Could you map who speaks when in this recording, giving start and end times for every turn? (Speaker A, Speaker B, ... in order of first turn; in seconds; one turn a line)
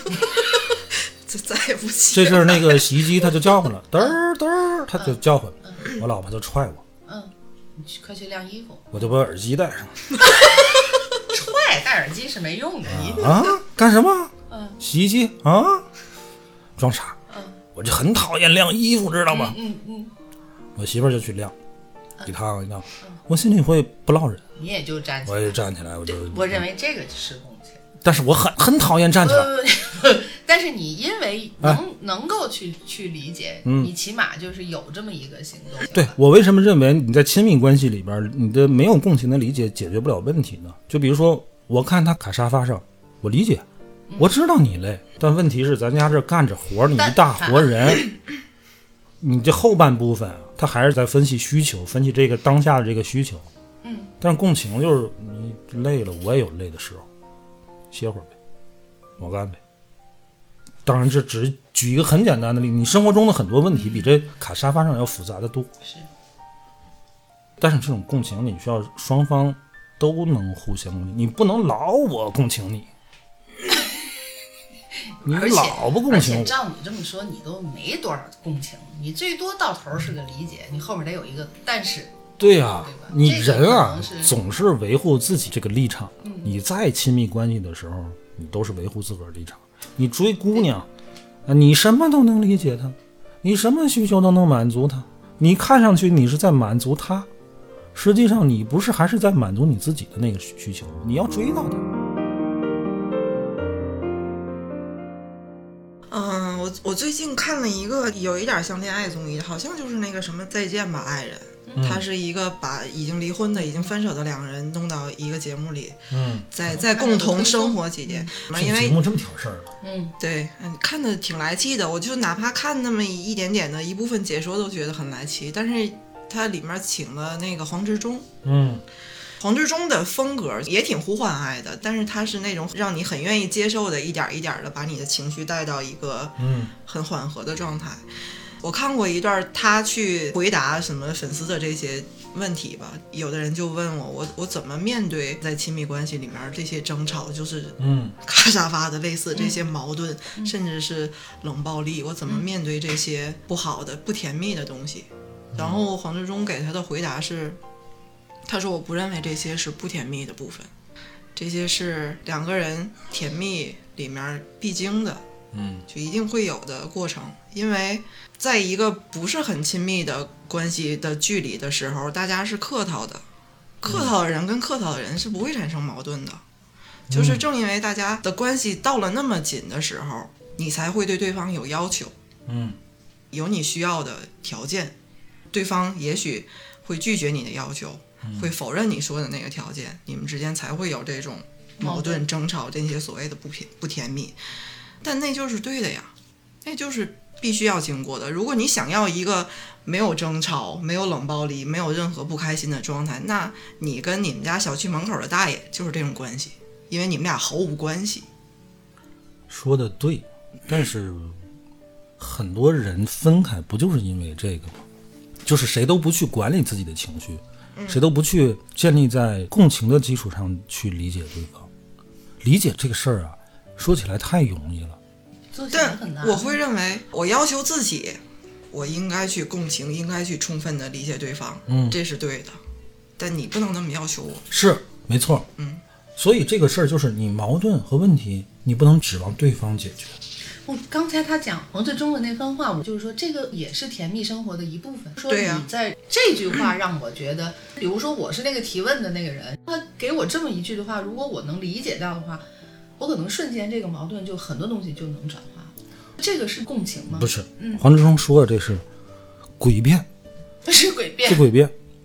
Speaker A: 1.2-2.9
Speaker B: 2.1-6.8
Speaker C: 5.0-5.8
Speaker C: 7.1-8.9
Speaker B: 8.9-10.0
Speaker C: 10.4-10.7
Speaker C: 11.3-13.5
Speaker B: 12.9-15.9
Speaker C: 14.5-14.8
Speaker B: 16.8-17.2
Speaker C: 17.3-17.6
Speaker B: 17.8-19.6
Speaker C: 19.3-20.1
Speaker B: 20.8-21.5
Speaker B: 22.2-24.4
Speaker C: 24.6-27.8
Speaker B: 25.3-26.6
Speaker B: 28.0-29.5
Speaker C: 29.2-36.2
Speaker B: 33.6-33.9
Speaker B: 35.9-43.6
Speaker B: 44.2-48.1
Speaker C: 47.0-47.7
Speaker B: 49.2-53.5
Speaker C: 53.8-54.1
Speaker B: 54.2-57.1
Speaker B: 57.9-58.3
Speaker B: 59.2-59.6
Speaker B: 60.9-65.7
Speaker B: 67.6-72.9
Speaker C: 75.1-82.1
Speaker B: 75.2-76.6
Speaker B: 82.4-90.9
Speaker C: 82.8-84.3
Speaker C: 86.2-86.5
Speaker B: 91.5-97.3
Speaker B: 98.0-101.8
Speaker A: 106.1-116.0
Speaker B: 111.8-112.0
Speaker C: 113.6-113.9
Speaker B: 116.1-116.5
Speaker A: 116.5-119.0
Speaker C: 116.7-118.3
Speaker B: 118.5-119.7
Speaker C: 119.8-120.2
Speaker A: 120.2-128.3
Speaker B: 128.4-128.8
Speaker A: 129.4-138.0
Speaker B: 136.4-136.7
Speaker A: 138.6-157.6
Speaker B: 147.8-148.2
Speaker C: 149.3-149.6
Speaker B: 155.5-155.8
Speaker A: 158.5-160.7
Speaker A: 161.3-165.2
Speaker B: 165.5-165.9
Speaker A: 165.9-173.2
Speaker A: 173.8-176.4
Speaker B: 173.8-174.1
Speaker B: 177.1-177.5
Speaker A: 177.1-182.1
Speaker B: 182.5-182.8
Speaker A: 183.3-184.9
Speaker A: 185.5-194.4
Speaker B: 188.2-188.5
Speaker C: 191.8-192.2
Speaker A: 195.0-196.1
Speaker A: 196.6-208.3
Speaker B: 209.5-211.4
Speaker B: 212.2-214.8
Speaker B: 215.4-221.7
Speaker A: 217.8-218.0
Speaker B: 222.4-225.0
Speaker C: 225.5-226.6
Speaker A: 225.7-228.2
Speaker A: 228.7-232.6
Speaker B: 231.7-232.0
Speaker A: 233.2-234.4
Speaker B: 234.5-235.5
Speaker A: 235.6-235.8
Speaker B: 236.2-240.2
Speaker C: 240.6-252.4
Speaker A: 245.3-245.7
Speaker C: 253.0-257.9
Speaker B: 257.1-258.8
Speaker B: 259.6-260.1
Speaker C: 260.6-261.5
Speaker B: 261.2-261.7